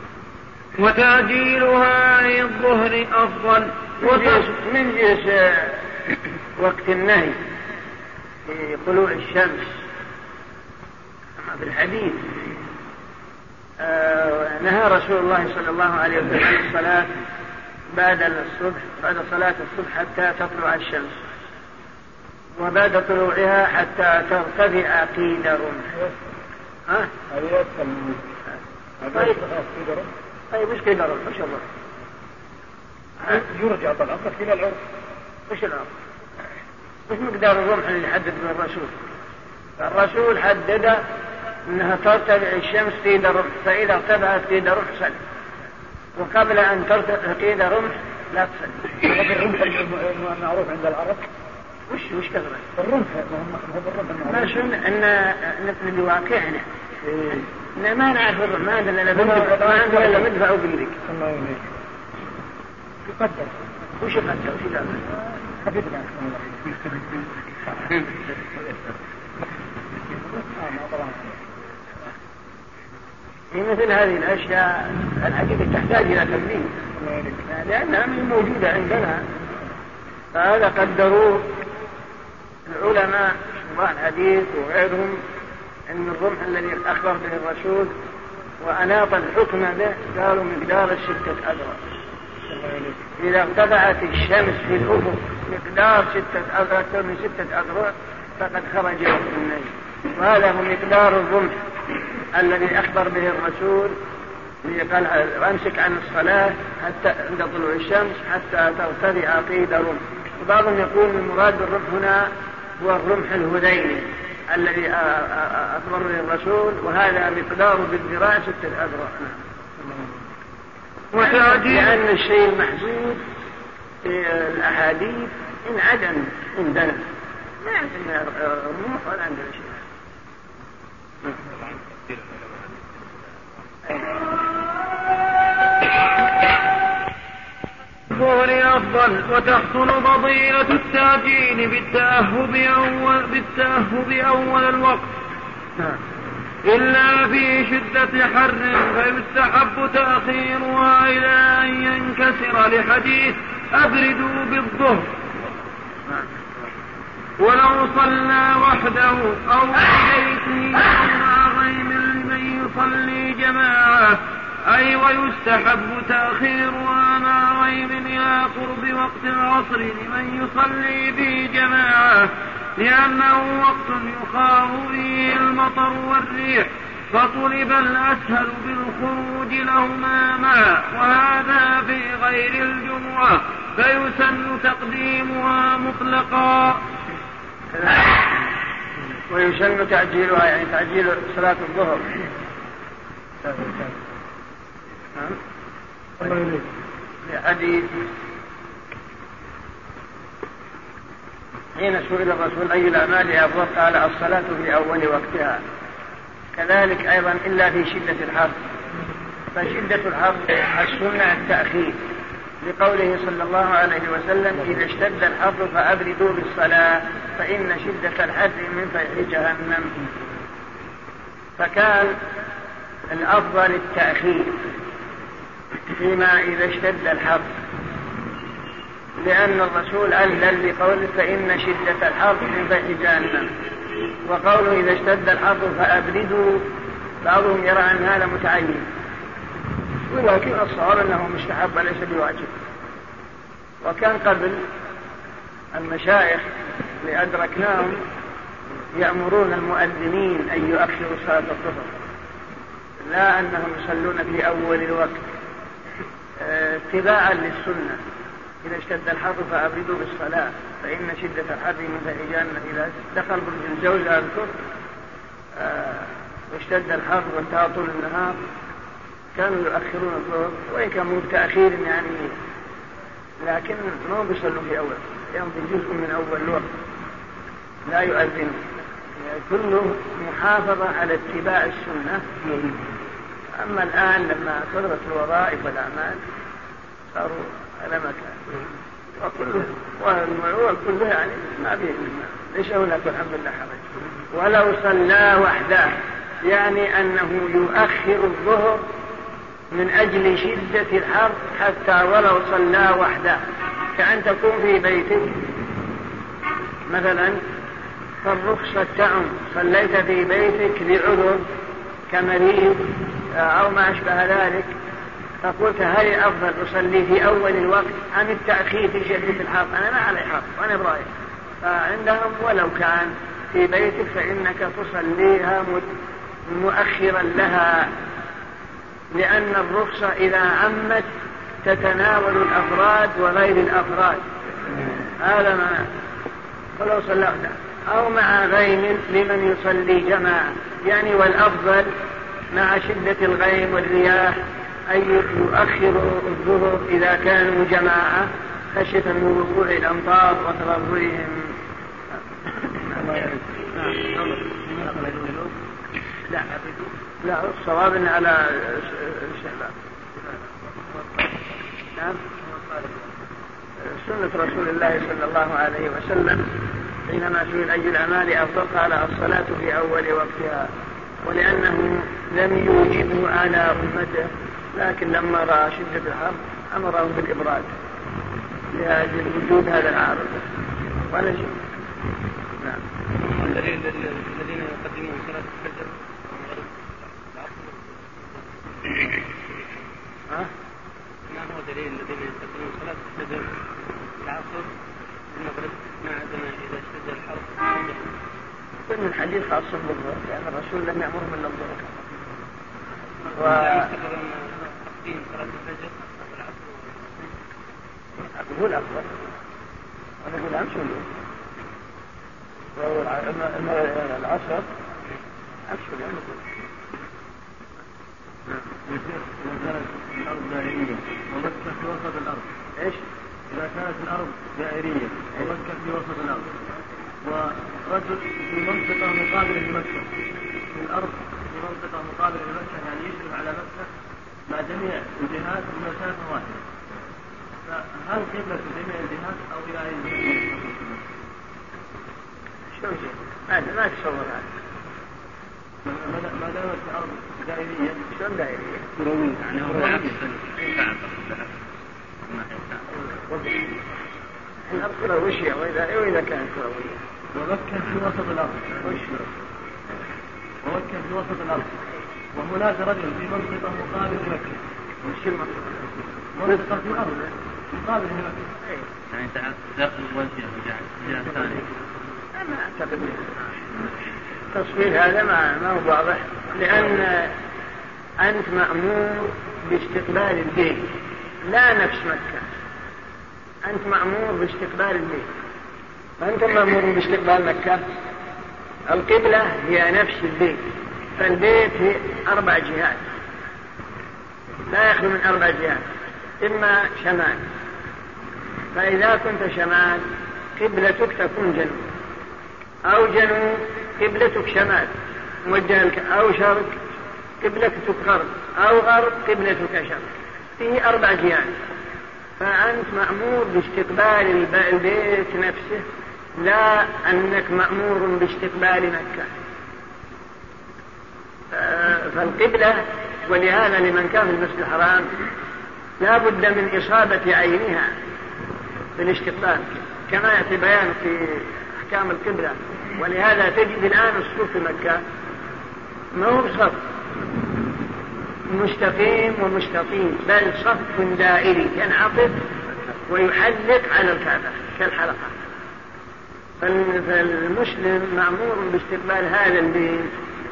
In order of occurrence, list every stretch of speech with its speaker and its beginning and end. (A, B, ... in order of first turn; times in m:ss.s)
0:00.8-0:04.4 A
0:04.0-0:05.9 B
0:06.6-0:07.4 B
0:08.4-0:09.7 B
0:11.4-0:12.3 B
0:13.8-0:17.1 B
0:17.9-0:21.2 B
0:22.6-0:25.8 B
0:27.3-0:28.2 C
0:29.0-0:30.1 C
0:29.1-0:29.4 B
0:30.5-0:31.6 B
0:33.2-0:34.8 C
0:35.5-0:35.9 B
0:37.1-0:38.9 B
0:39.8-0:41.0 B
0:41.7-0:45.2 B
0:46.2-0:49.0 B
0:49.0-0:51.3 C
0:51.9-0:52.6 B
0:52.8-0:54.6 C
0:54.2-0:56.6 B
0:57.0-0:57.5 C
0:57.7-1:01.0 B
0:59.1-1:00.3 C
1:01.1-1:01.6 C
1:03.0-1:03.6 C
1:04.0-1:05.0 B
1:05.6-1:07.2 C
1:08.2-1:08.9 D
1:10.1-1:11.4 C
1:13.5-1:16.7 B
1:17.0-1:17.4 C
1:17.5-1:19.2 B
1:20.3-1:21.6 B
1:22.6-1:25.2 B
1:25.9-1:27.9 B
1:28.6-1:31.8 B
1:32.5-1:33.0 C
1:33.2-1:41.6 B
1:42.3-1:44.0 B
1:44.6-1:59.4 B
1:59.8-2:00.2 C
2:01.1-2:02.0 A
2:01.1-2:03.2 B
2:04.0-2:07.0 B
2:07.6-2:09.8 B
2:11.4-2:13.2 D
2:18.1-2:25.1 A
2:26.6-2:35.1 A
2:37.4-3:06.8 A
3:07.8-3:08.2 B
3:09.3-3:12.0 B
3:13.4-3:13.9 C
3:16.2-3:16.6 C
3:17.2-3:17.9 B
3:21.8-3:25.6 B
3:26.5-3:28.5 B
3:29.5-3:32.0 B
3:32.6-3:39.9 B
3:41.6-3:42.2 B
3:43.1-3:44.6 B
3:45.9-3:47.5 B
3:49.2-3:53.5 B
3:54.2-3:56.7 B
3:57.2-3:58.9 B
4:00.1-4:02.5 B
4:03.8-4:04.6 B
4:05.7-4:06.4 B
4:07.0-4:08.0 B
4:09.0-4:11.9 B
4:13.0-4:15.2 B
4:16.4-4:18.0 B
4:18.6-4:24.5 B
4:25.6-4:28.4 B
4:29.4-4:32.4 B
4:33.4-4:36.7 B
4:37.9-4:38.6 B
4:39.2-4:42.3 B
4:43.6-4:46.2 B
4:47.1-4:48.6 B
4:49.2-4:58.8 B
4:59.7-5:03.4 B
5:03.9-5:05.4 B
5:06.9-5:07.4 B
5:08.2-5:11.4 B
5:12.1-5:14.7 B
5:15.4-5:21.1 B
5:21.6-5:25.9 B
5:26.5-5:27.9 B
5:29.1-5:31.1 B
5:31.6-5:34.2 B
5:35.2-5:35.9 B
5:36.8-5:41.9 B
5:42.5-5:44.4 B
5:44.9-5:51.5 B
5:52.8-5:53.4 B
5:53.8-5:55.6 E
5:56.5-5:56.8 E
5:57.2-5:59.7 B
6:01.9-6:02.2 B
6:02.5-6:03.0 E
6:03.8-6:10.7 B
6:11.2-6:17.7 B
6:18.7-6:20.4 B
6:21.1-6:21.6 B
6:23.2-6:29.0 D
6:31.3-6:33.5 D
6:34.2-6:34.7 D
6:35.3-6:38.0 D
6:38.9-6:42.0 B
6:43.3-6:47.2 D
6:43.4-6:43.9 B
6:48.2-6:49.2 B
6:50.2-6:51.1 B
6:52.8-6:54.7 B
6:55.7-6:56.4 B
6:58.9-7:02.5 E
7:02.8-7:03.0 B
7:03.5-7:06.6 E
7:07.2-7:10.1 E
7:10.7-7:13.9 E
7:14.5-7:16.6 E
7:17.6-7:21.0 E
7:22.8-7:24.5 B
7:25.8-7:28.1 E
7:28.1-7:28.9 B
7:29.0-7:29.4 C
7:29.4-7:31.5 D
7:29.7-7:30.1 E
7:32.3-7:32.9 D
7:34.7-7:37.0 B
7:37.3-7:39.2 E
7:38.8-7:39.2 B
7:40.6-7:41.8 E
7:42.3-7:44.6 E
7:45.0-7:45.8 B
7:46.3-7:48.5 E
7:49.1-7:51.6 D
7:52.3-7:53.3 B
7:54.5-7:57.3 B
7:58.2-8:02.4 B
8:03.6-8:05.3 B
8:06.2-8:07.8 B
8:08.9-8:13.0 B
8:14.7-8:15.8 B
8:16.4-8:17.4 B
8:18.7-8:21.9 B
8:22.8-8:24.9 B
8:25.4-8:26.8 B
8:27.4-8:31.6 B
8:32.4-8:35.8 B
8:36.4-8:39.3 B
8:41.5-8:45.1 B
8:46.0-8:47.9 B
8:49.0-8:55.0 B
8:56.1-8:56.8 B
8:58.5-9:02.5 B
9:03.1-9:05.3 B
9:06.6-9:10.1 B